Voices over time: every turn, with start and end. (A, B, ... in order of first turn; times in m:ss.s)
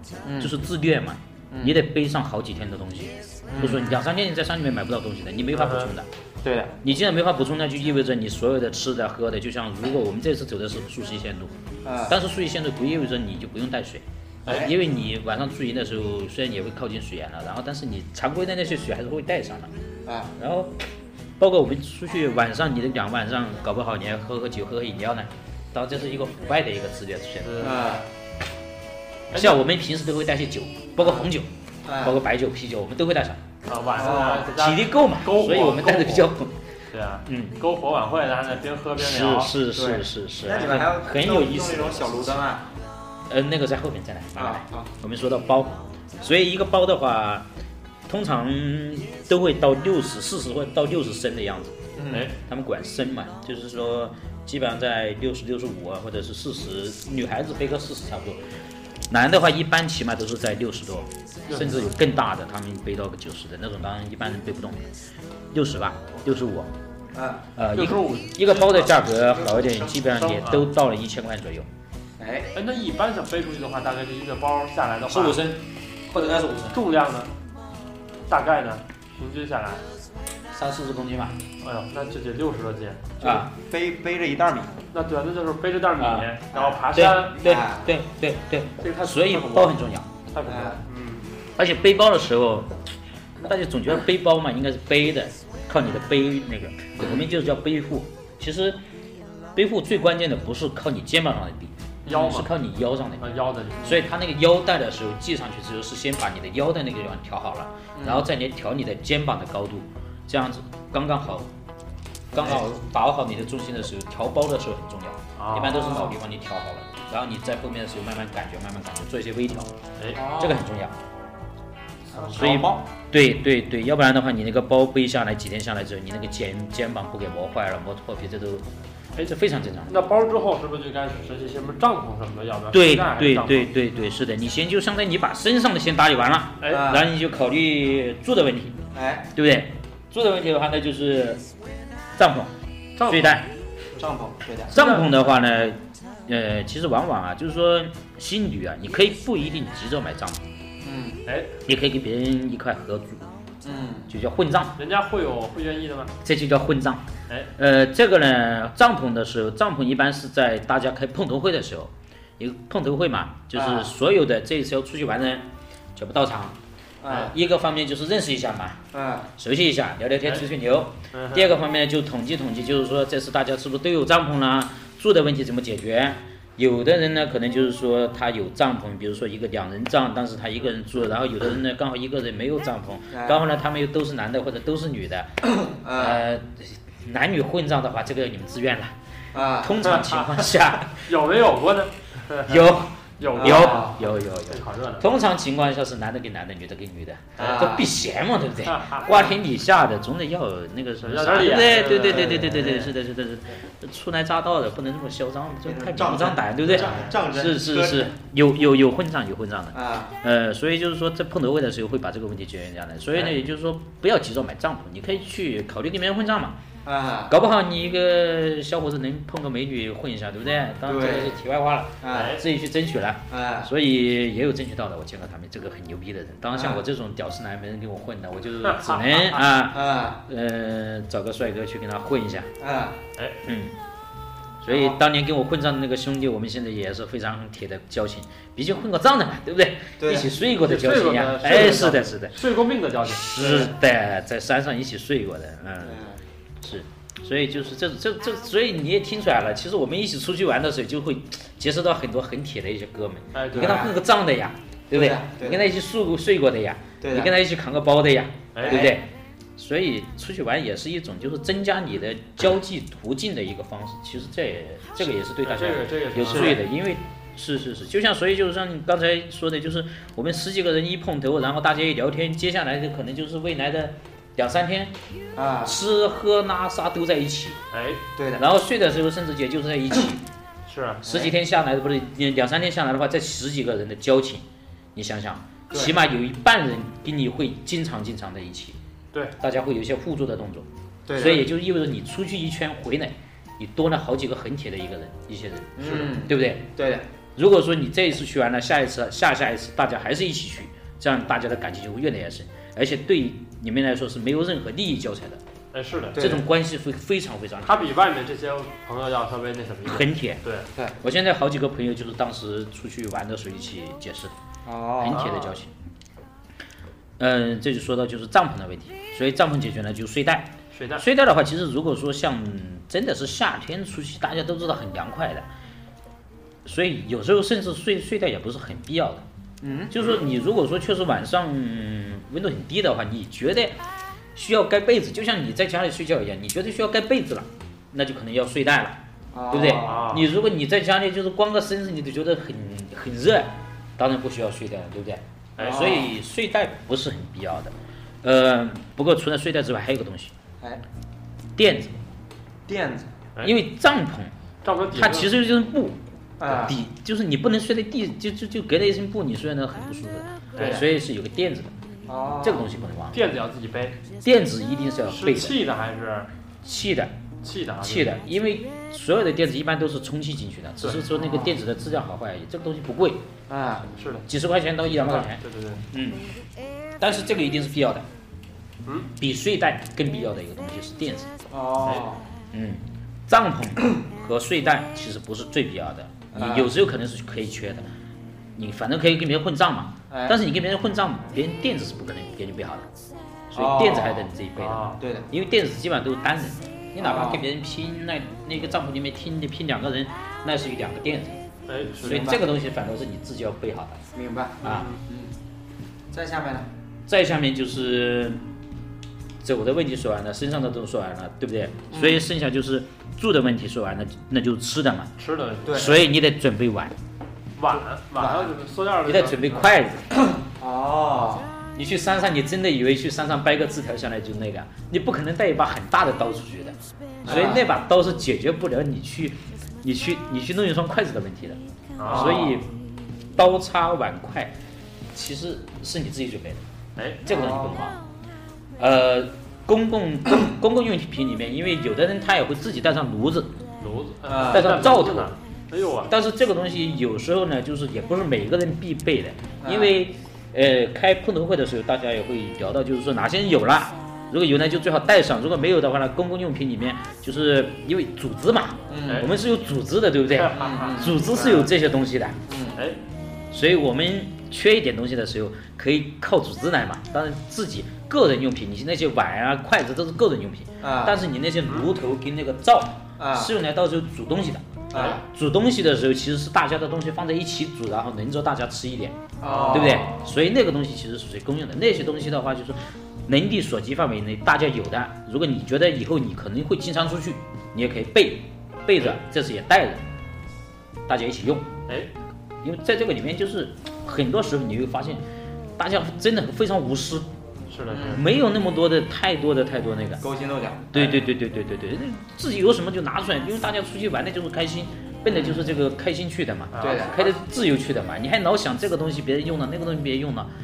0:00.2-0:00.6 A
0:00.4-0:06.1 B
0:01.5-0:01.8 A
0:03.5-0:03.9 A
0:05.5-0:05.9 C
0:06.4-0:06.8 A
0:06.8-0:11.5 B
0:11.8-0:12.1 A
0:12.1-0:19.7 B
0:20.1-0:20.3 A
0:20.4-0:20.8 B
0:21.4-0:27.7 B
0:27.4-0:27.9 C
0:27.6-0:28.1 A
0:29.3-0:29.6 C
0:29.3-0:31.5 B
0:31.0-0:31.3 A
0:31.8-0:32.2 A
0:32.0-0:33.4 B
0:33.7-0:36.3 C
0:34.0-0:34.5 A
0:34.4-0:36.6 B
0:36.9-0:39.6 C
0:37.3-0:37.6 B
0:39.0-0:42.4 B
0:39.7-0:42.6 A
0:40.5-0:40.8 C
0:43.3-0:47.5 B
0:44.4-0:44.9 A
0:48.1-0:51.8 B
0:52.0-0:52.3 A
0:52.1-0:52.4 C
0:52.4-0:58.4 B
0:59.1-1:04.8 B
1:01.5-1:01.9 C
1:05.5-1:06.7 B
1:07.1-1:07.4 A
1:07.6-1:11.7 B
1:07.7-1:08.6 C
1:08.6-1:10.2 A
1:10.1-1:10.7 C
1:12.2-1:12.5 A
1:12.5-1:15.5 C
1:15.0-1:16.8 B
1:16.1-1:17.3 C
1:18.3-1:19.8 C
1:20.5-1:21.4 B
1:21.6-1:23.1 C
1:23.2-1:24.8 A
1:23.2-1:23.5 B
1:24.9-1:27.4 C
1:26.0-1:26.3 B
1:26.5-1:27.9 A
1:26.9-1:30.1 B
1:28.8-1:29.8 C
1:30.3-1:31.3 C
1:30.5-1:30.8 A
1:31.6-1:32.8 B
1:33.4-1:38.8 B
1:39.6-1:43.2 B
1:42.1-1:42.5 C
1:43.2-1:44.0 C
1:43.8-1:51.5 B
1:48.0-1:48.3 A
1:52.3-1:59.7 B
1:55.4-1:55.9 C
1:55.6-1:56.2 A
2:00.2-2:00.7 A
2:00.3-2:01.0 B
2:02.1-2:02.7 C
2:02.2-2:02.8 A
2:02.4-2:08.7 B
2:09.2-2:10.0 B
2:09.9-2:13.7 C
2:12.7-2:18.8 B
2:16.7-2:17.1 A
2:18.9-2:19.3 A
2:19.4-2:21.4 B
2:22.2-2:22.5 B
2:23.0-2:23.4 C
2:23.0-2:23.5 B
2:24.0-2:24.8 A
2:24.7-2:30.4 B
2:24.7-2:25.1 C
2:30.8-2:31.2 A
2:31.3-2:31.5 C
2:31.7-2:33.2 B
2:33.6-2:34.1 A
2:34.1-2:34.8 B
2:34.8-2:36.1 C
2:36.2-2:37.0 B
2:37.6-2:46.6 B
2:43.5-2:43.9 A
2:47.0-2:47.3 A
2:47.1-2:48.8 B
2:48.9-2:49.3 A
2:49.4-3:05.4 B
2:51.1-2:51.5 C
3:03.1-3:03.4 A
3:05.4-3:06.2 A
3:06.0-3:09.0 B
3:09.3-3:09.8 A
3:09.6-3:11.1 B
3:09.8-3:15.1 C
3:12.4-3:36.6 B
3:13.4-3:14.0 A
3:17.4-3:17.6 C
3:17.4-3:17.9 A
3:18.6-3:19.1 C
3:21.0-3:22.9 C
3:22.0-3:22.6 A
3:25.6-3:28.1 A
3:26.6-3:27.2 C
3:29.7-3:30.1 A
3:36.8-3:37.3 A
3:37.3-3:52.5 B
3:40.9-3:41.4 A
3:42.0-3:42.4 A
3:42.1-3:42.4 C
3:43.3-3:43.7 A
3:46.5-3:46.8 A
3:48.6-3:49.4 C
3:49.4-3:50.2 A
3:52.6-3:53.0 A
3:53.2-3:53.4 C
3:53.5-3:53.8 B
3:54.6-4:02.4 B
4:00.0-4:00.3 A
4:00.5-4:03.7 C
4:03.0-4:06.0 B
4:05.8-4:06.2 A
4:06.6-4:35.0 B
4:13.3-4:13.8 C
4:13.5-4:13.9 A
4:14.9-4:15.7 A
4:17.0-4:17.3 A
4:18.5-4:18.9 C
4:18.6-4:19.0 A
4:25.4-4:26.6 C
4:26.3-4:26.6 A
4:35.4-4:35.8 A
4:35.6-4:37.6 B
4:37.7-4:38.0 C
4:38.2-4:38.5 A
4:38.4-4:40.2 B
4:40.7-4:41.0 C
4:41.0-4:41.3 A
4:41.0-4:44.4 B
4:45.0-4:48.8 B
4:49.4-4:56.6 B
4:51.1-4:51.5 A
4:55.8-4:57.0 A
4:57.4-5:05.4 B
5:05.7-5:06.2 C
5:06.2-5:06.4 A
5:06.2-5:07.8 B
5:07.6-5:10.7 C
5:09.8-5:10.4 B
5:11.0-5:14.3 B
5:14.7-5:15.2 A
5:15.0-5:15.7 B
5:15.1-5:15.5 C
5:17.2-5:25.5 B
5:20.7-5:21.1 C
5:26.6-5:29.2 B
5:29.6-5:30.0 A
5:29.9-5:33.8 B
5:34.4-5:50.3 B
5:39.3-5:40.2 A
5:39.8-5:40.3 C
5:45.6-5:46.0 C
5:45.6-5:46.1 A
5:51.6-5:52.0 B
5:52.7-5:53.1 A
5:53.4-5:54.3 B
5:54.6-5:55.4 C
5:54.9-6:01.7 B
5:56.4-5:56.8 A
6:00.6-6:00.8 C
6:00.6-6:00.8 A
6:02.1-6:02.7 A
6:02.4-6:03.2 B
6:03.1-6:04.0 C
6:04.2-6:05.6 B
6:05.1-6:06.3 C
6:06.6-6:07.2 B
6:07.4-6:08.1 C
6:07.8-6:13.2 B
6:10.8-6:11.1 C
6:11.1-6:11.5 A
6:13.5-6:13.9 A
6:14.0-6:14.3 C
6:14.3-6:16.3 B
6:14.8-6:15.8 C
6:17.0-6:18.0 B
6:18.9-6:19.1 C
6:19.2-6:21.3 B
6:21.5-6:22.2 A
6:22.5-6:27.9 B
6:26.3-6:26.8 A
6:28.6-6:32.9 B
6:30.1-6:30.4 A
6:33.5-6:41.4 B
6:33.5-6:34.3 A
6:34.6-6:35.0 C
6:35.0-6:35.3 A
6:37.0-6:37.4 A
6:41.7-6:42.4 C
6:42.0-6:44.0 B
6:42.0-6:42.4 A
6:44.1-6:45.3 A
6:44.6-6:44.9 B
6:44.6-6:45.0 C
6:46.1-6:46.7 A
6:47.1-6:48.4 B
6:49.4-6:55.1 B
6:51.9-6:52.3 A
6:55.2-6:56.0 C
6:55.6-6:56.0 A
6:55.7-6:57.0 B
6:57.6-6:59.7 C
6:58.2-6:58.5 A
6:59.0-7:00.1 B
7:00.1-7:01.5 A
7:01.7-7:12.7 B
7:07.2-7:07.7 A
7:07.3-7:07.6 C
7:12.0-7:12.6 C
7:12.1-7:12.6 A
7:13.3-7:14.6 B
7:15.1-7:16.6 B
7:17.0-7:17.2 C
7:17.2-7:18.0 B
7:17.3-7:17.9 A
7:18.8-7:23.5 B
7:23.8-7:26.1 C
7:24.3-7:24.8 A
7:24.5-7:25.3 B
7:26.1-7:42.4 B
7:29.6-7:30.0 A
7:38.9-7:39.3 A
7:40.3-7:41.6 C
7:40.6-7:41.7 A
7:42.5-7:42.8 A
7:43.5-8:10.0 B
7:50.8-7:51.2 A
7:53.2-7:53.5 A
7:54.9-7:55.2 A
7:54.9-7:55.2 C
7:59.4-8:00.1 A
7:59.4-8:00.3 C
8:11.1-8:11.7 B
8:12.6-8:15.2 B
8:15.8-8:17.3 B
8:17.7-8:18.2 C
8:17.9-8:18.2 A
8:18.1-8:20.2 B
8:20.2-8:21.1 A
8:20.9-8:30.5 B
8:25.3-8:25.7 A
8:26.7-8:27.4 C
8:26.8-8:27.2 A